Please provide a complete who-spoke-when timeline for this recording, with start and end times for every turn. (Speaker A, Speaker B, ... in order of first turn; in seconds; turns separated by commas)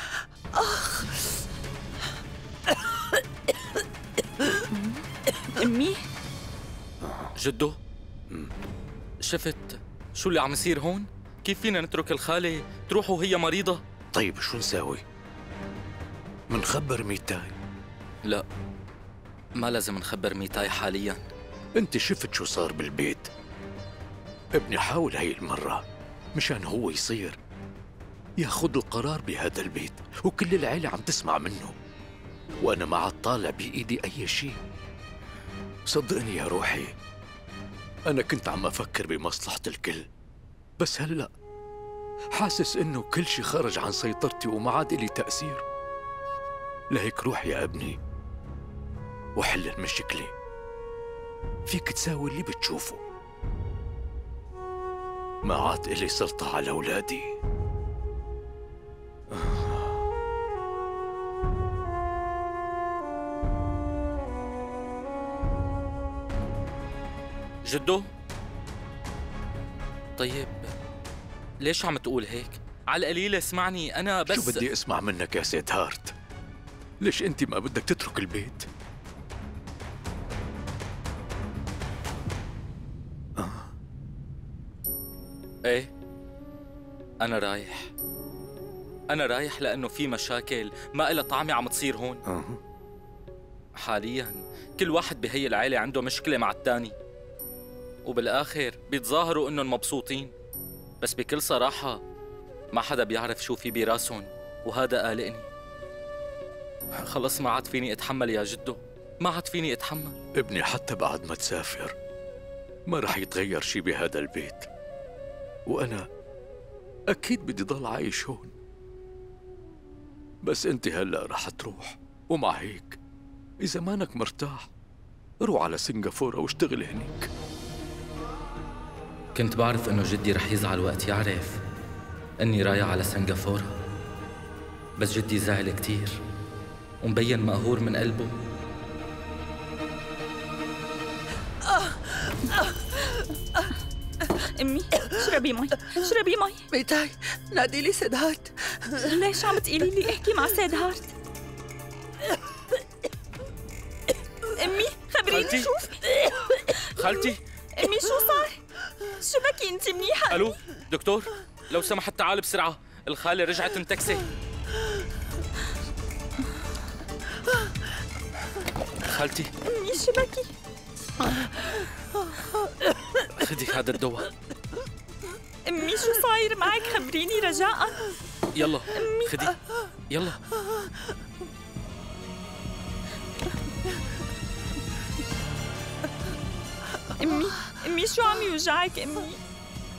Speaker A: 0.5-1.2, Speaker B: 4.6-6.0, Speaker C: 7.3-7.8, Speaker C: 9.2-13.8, Speaker D: 14.1-15.0, Speaker D: 16.5-17.6, Speaker C: 19.6-21.2, Speaker D: 21.8-23.3, Speaker D: 24.5-25.8, Speaker D: 26.3-27.4, Speaker D: 28.4-31.7, Speaker D: 32.6-34.6, Speaker D: 35.9-36.9, Speaker D: 38.1-40.1, Speaker D: 40.8-41.3, Speaker D: 42.3-45.6, Speaker D: 46.9-48.0, Speaker D: 49.4-50.3, Speaker D: 51.7-53.0, Speaker D: 55.4-57.3, Speaker D: 59.3-59.7, Speaker C: 67.6-68.1, Speaker C: 70.2-70.7, Speaker C: 71.6-74.6, Speaker D: 74.3-76.1, Speaker D: 77.0-78.7, Speaker D: 83.4-83.7, Speaker C: 87.2-87.9, Speaker C: 89.1-92.2, Speaker D: 92.2-92.6, Speaker C: 93.8-96.9, Speaker C: 98.0-100.3, Speaker C: 101.0-102.0, Speaker C: 102.7-105.5, Speaker C: 107.0-110.2, Speaker D: 110.3-111.9, Speaker D: 112.9-114.7, Speaker D: 115.7-116.1, Speaker D: 117.1-118.5, Speaker D: 120.4-123.0, Speaker D: 123.6-124.7, Speaker D: 125.4-127.3, Speaker C: 129.3-131.6, Speaker C: 132.4-133.8, Speaker C: 135.0-136.2, Speaker C: 137.0-138.3, Speaker B: 144.3-146.7, Speaker A: 146.7-149.1, Speaker B: 148.9-151.1, Speaker B: 154.5-157.2, Speaker C: 155.3-155.7, Speaker C: 156.7-157.4, Speaker B: 157.8-160.5, Speaker C: 160.3-164.2, Speaker C: 169.0-169.5, Speaker B: 169.6-170.5, Speaker C: 173.2-174.3, Speaker B: 175.6-178.1, Speaker C: 178.5-179.6, Speaker B: 178.9-179.4, Speaker C: 180.1-180.4, Speaker B: 187.2-189.4